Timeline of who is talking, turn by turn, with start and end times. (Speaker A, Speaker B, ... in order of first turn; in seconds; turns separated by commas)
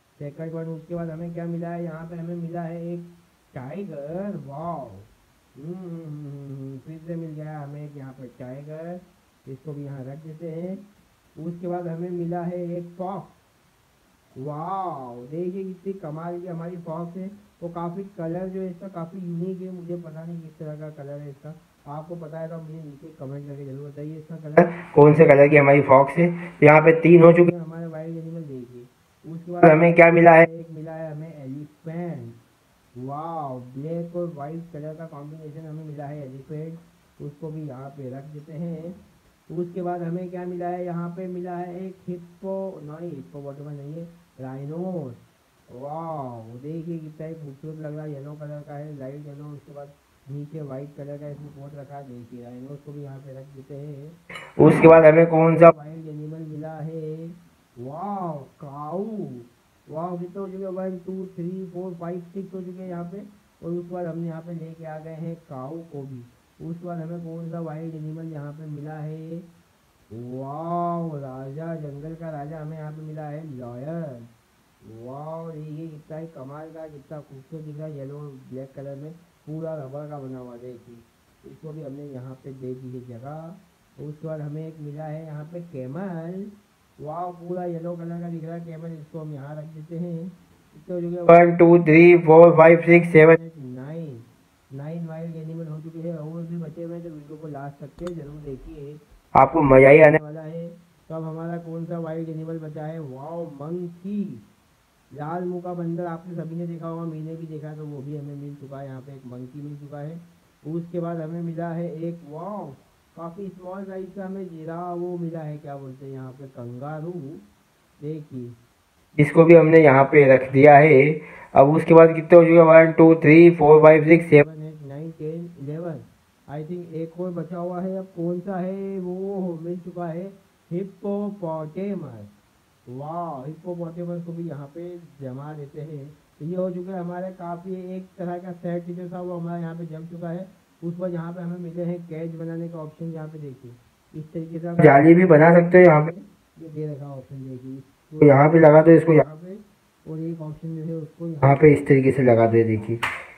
Speaker A: 0.2-10.8, Speaker A: 11.4-13.3, Speaker A: 14.3-24.8, Speaker B: 24.7-27.3, Speaker A: 27.1-32.4, Speaker B: 29.6-30.1, Speaker A: 33.0-39.0, Speaker A: 39.5-54.2, Speaker B: 54.6-55.6, Speaker A: 55.4-69.5, Speaker A: 70.1-74.3, Speaker A: 74.8-91.7, Speaker B: 91.3-93.1, Speaker A: 92.7-99.0, Speaker B: 99.4-100.1, Speaker A: 99.5-104.4, Speaker A: 105.1-117.4, Speaker A: 118.0-118.5, Speaker B: 119.2-124.2, Speaker A: 124.2-132.3, Speaker A: 132.9-152.9, Speaker B: 144.8-146.0, Speaker B: 151.4-152.5